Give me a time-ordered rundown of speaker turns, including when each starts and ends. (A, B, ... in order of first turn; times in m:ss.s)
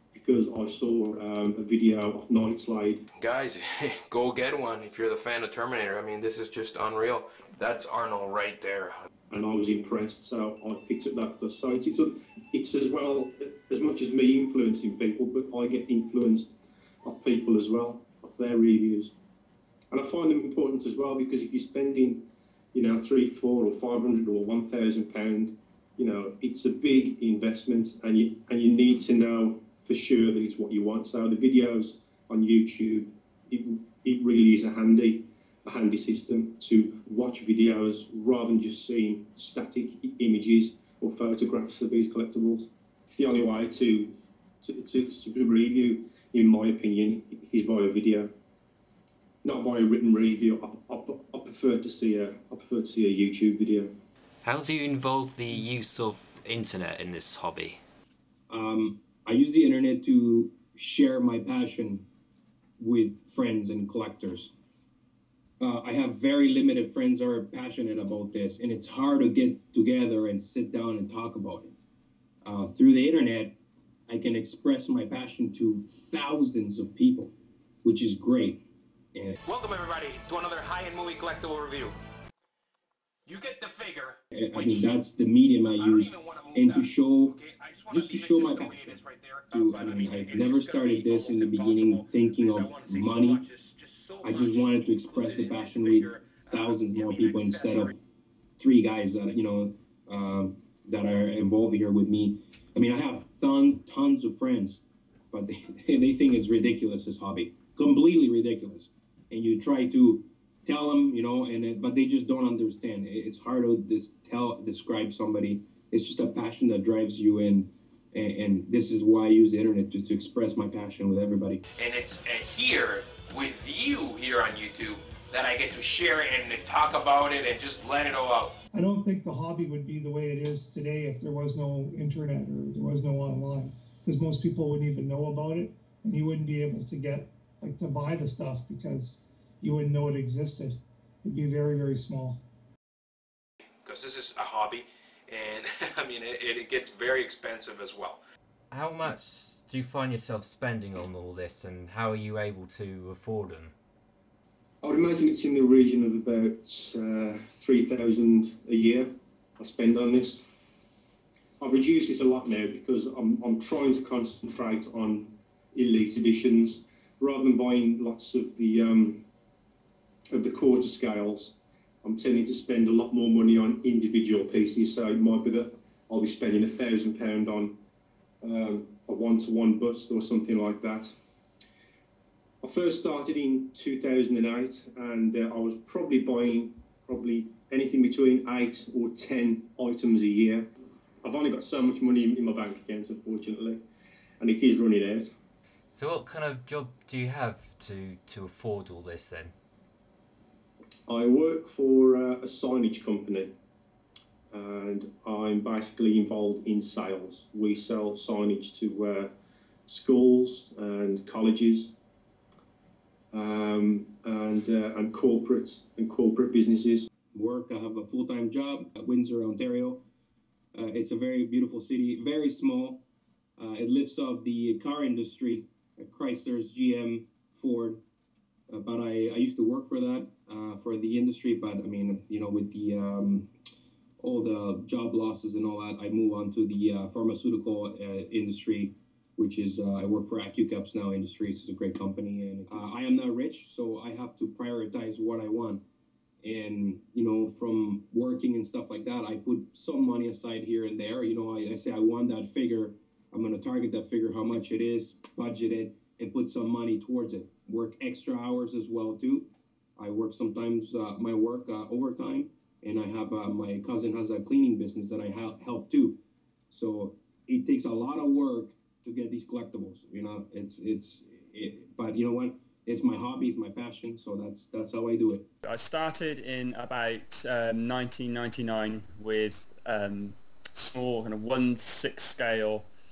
0:00.1-0:03.0 A
0:03.2-0:09.0 B
0:09.3-0:16.4 A
0:17.0-0:19.1 A
0:19.9-0:48.3 A
0:49.4-0:53.9 A
0:54.4-0:57.8 C
0:58.5-1:02.0 D
1:02.8-1:04.5 D
1:05.6-1:11.7 D
1:12.4-1:13.6 D
1:14.1-1:17.3 D
1:17.8-1:18.6 D
1:19.5-1:21.9 B
1:23.3-1:24.9 B
1:24.3-1:33.5 D
1:25.8-1:37.9 B
1:34.2-1:38.0 D
1:38.6-2:01.6 D
2:01.8-2:08.5 B
2:08.7-2:22.4 E
2:23.8-2:28.2 B
2:28.7-2:33.7 C
2:34.8-2:40.4 A
2:41.6-2:49.2 A
2:50.3-2:57.8 A
2:58.4-3:01.1 A
3:02.6-3:10.7 A
3:11.2-3:13.8 A
3:14.4-3:15.4 A
3:15.9-3:19.5 C
3:21.1-3:23.5 A
3:24.5-3:29.3 A
3:29.9-3:31.9 A
3:33.3-3:37.1 A
3:37.3-3:40.0 D
3:40.8-3:43.0 D
3:43.6-3:48.0 D
3:48.7-3:53.5 D
3:54.2-4:05.8 D
4:06.4-4:19.5 D
4:20.0-4:26.2 D
4:26.7-4:35.5 D
4:35.6-4:42.9 F